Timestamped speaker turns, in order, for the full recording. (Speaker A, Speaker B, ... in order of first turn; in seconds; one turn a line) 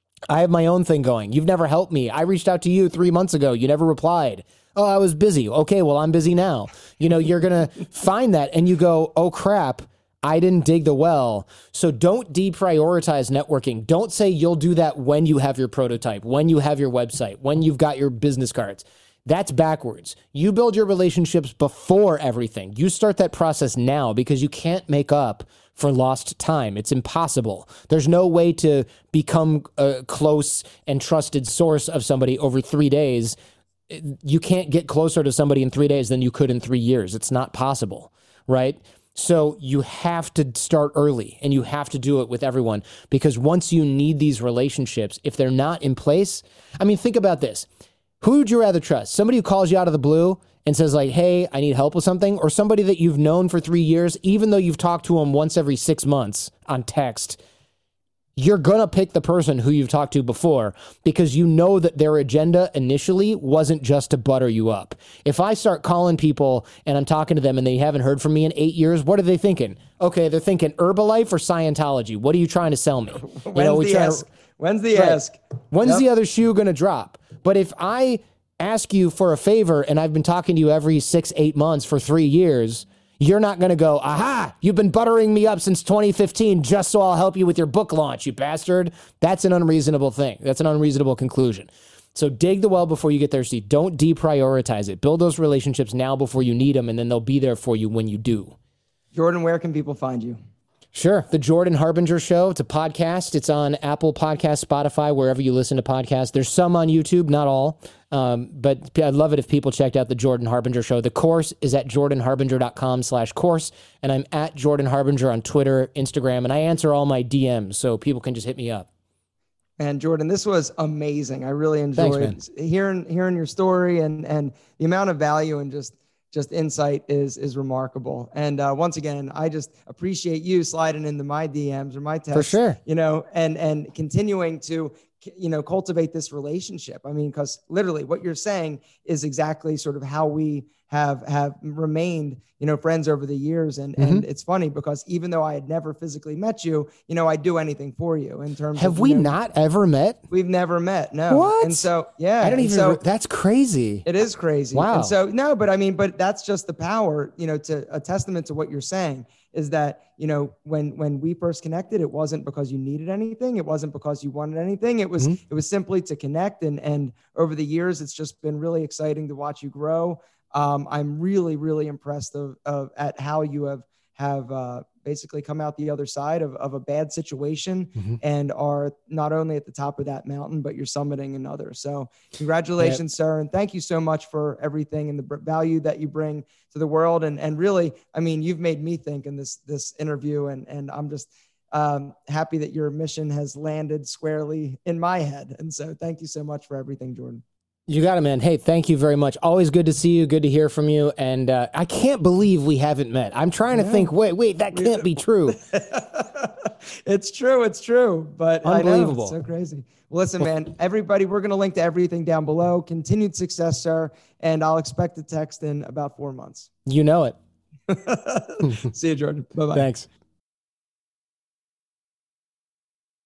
Speaker A: 0.3-33.4
Speaker A: 33.9-47.7
Speaker A: 48.2-57.4
Speaker A: 58.4-74.2
Speaker B: 73.3-76.0
Speaker A: 74.9-75.2
Speaker A: 75.7-98.5
Speaker B: 99.1-100.4
Speaker A: 100.9-118.9
Speaker B: 119.8-149.3
Speaker A: 122.0-122.3
Speaker A: 132.3-132.8
Speaker A: 144.0-144.2
Speaker A: 148.8-150.2
Speaker B: 150.3-153.0
Speaker A: 151.3-151.8
Speaker A: 152.4-154.1
Speaker B: 154.1-197.4
Speaker A: 154.7-155.1
Speaker A: 197.9-205.6
Speaker B: 203.7-204.1
Speaker B: 204.7-216.7
Speaker A: 208.6-209.3
Speaker A: 216.8-217.4
Speaker B: 217.9-219.9
Speaker A: 219.7-220.1